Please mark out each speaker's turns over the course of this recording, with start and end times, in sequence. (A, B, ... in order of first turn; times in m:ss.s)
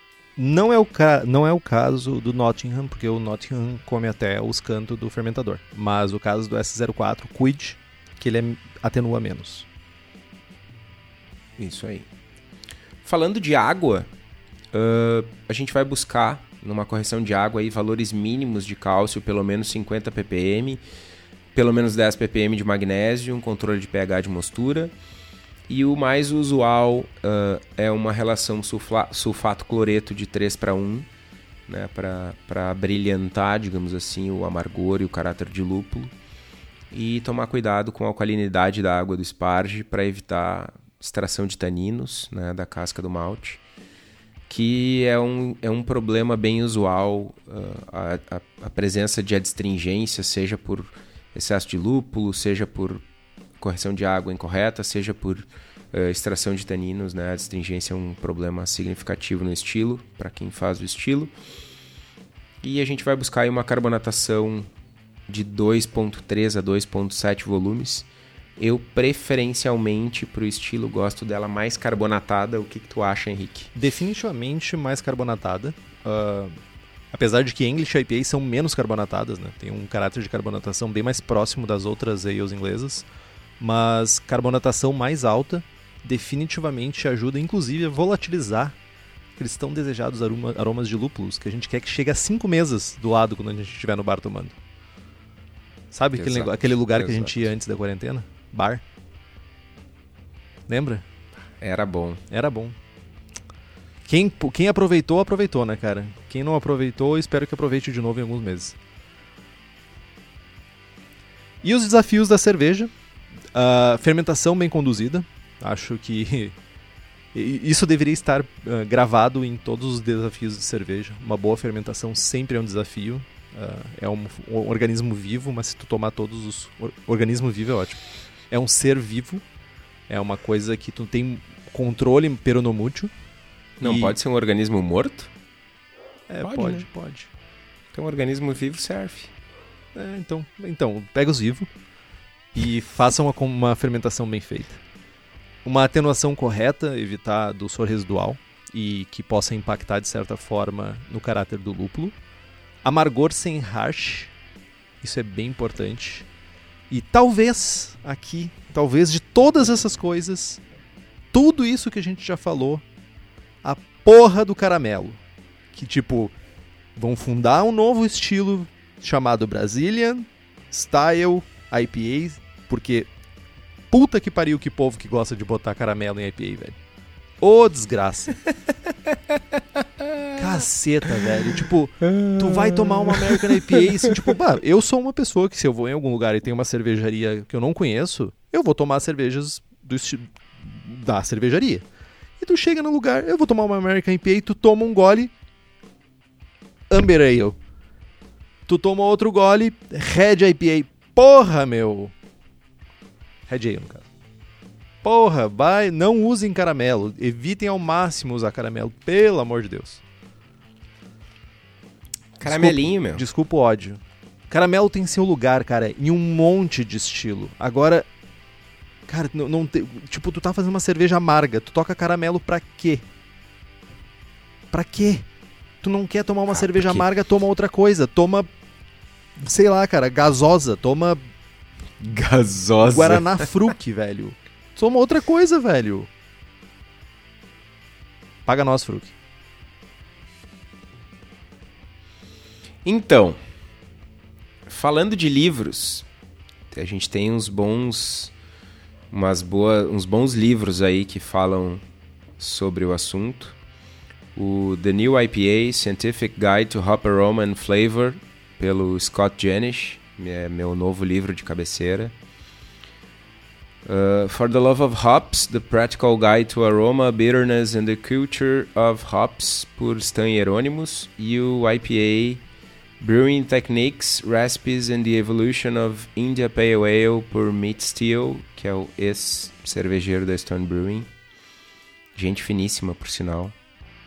0:00.4-0:09.7 A
0:11.6-0:12.1 B
0:13.0-0:14.1 B
0:14.7-0:20.8 B
0:21.5-0:24.9 B
0:25.7-0:31.1 B
0:31.7-0:36.1 B
0:36.9-0:43.6 B
0:44.5-0:53.0 B
0:53.6-1:01.3 B
1:02.6-1:04.7 B
1:05.3-1:13.7 B
1:13.8-1:16.6 A
1:17.1-1:23.1 A
1:23.6-1:28.8 A
1:29.4-1:34.6 A
1:35.9-1:38.8 A
1:36.2-1:37.5 B
1:40.7-1:41.0 A
1:41.6-1:42.2 B
1:42.3-1:42.8 A
1:44.1-1:48.8 A
1:51.6-1:52.9 A
1:53.5-1:56.6 A
1:57.3-2:09.4 A
2:10.1-2:13.1 A
2:13.8-2:15.3 B
2:13.8-2:14.2 A
2:16.3-2:17.3 A
2:16.4-2:16.9 B
2:17.9-2:19.3 B
2:20.0-2:21.7 A
2:22.5-2:24.8 A
2:25.6-2:32.2 A
2:32.8-2:34.3 A
2:35.0-2:36.3 A
2:36.9-2:40.6 A
2:41.3-2:42.8 A
2:43.6-2:45.2 A
2:45.7-2:46.3 A
2:47.0-2:53.1 A
2:53.9-2:56.8 A
2:57.4-2:58.4 A
3:00.4-3:11.8 A
3:02.4-3:04.3 B
3:12.4-3:15.3 A
3:16.9-3:17.6 A
3:18.7-3:22.1 A
3:23.5-3:24.1 A
3:25.0-3:30.0 A
3:32.4-3:33.2 B
3:32.4-3:38.1 A
3:39.1-3:43.0 A
3:44.7-3:45.2 A
3:45.8-3:48.5 A
3:46.5-3:47.1 B
3:49.4-3:51.2 A
3:52.0-3:53.5 B
3:52.8-3:56.1 A
3:58.5-3:59.2 A
4:02.8-4:03.4 B
4:04.7-4:06.1 B
4:06.7-4:08.3 B
4:09.1-4:11.8 B
4:12.4-4:13.6 B
4:14.4-4:22.2 B
4:23.8-4:32.4 B
4:33.0-4:41.1 B
4:42.2-4:43.6 B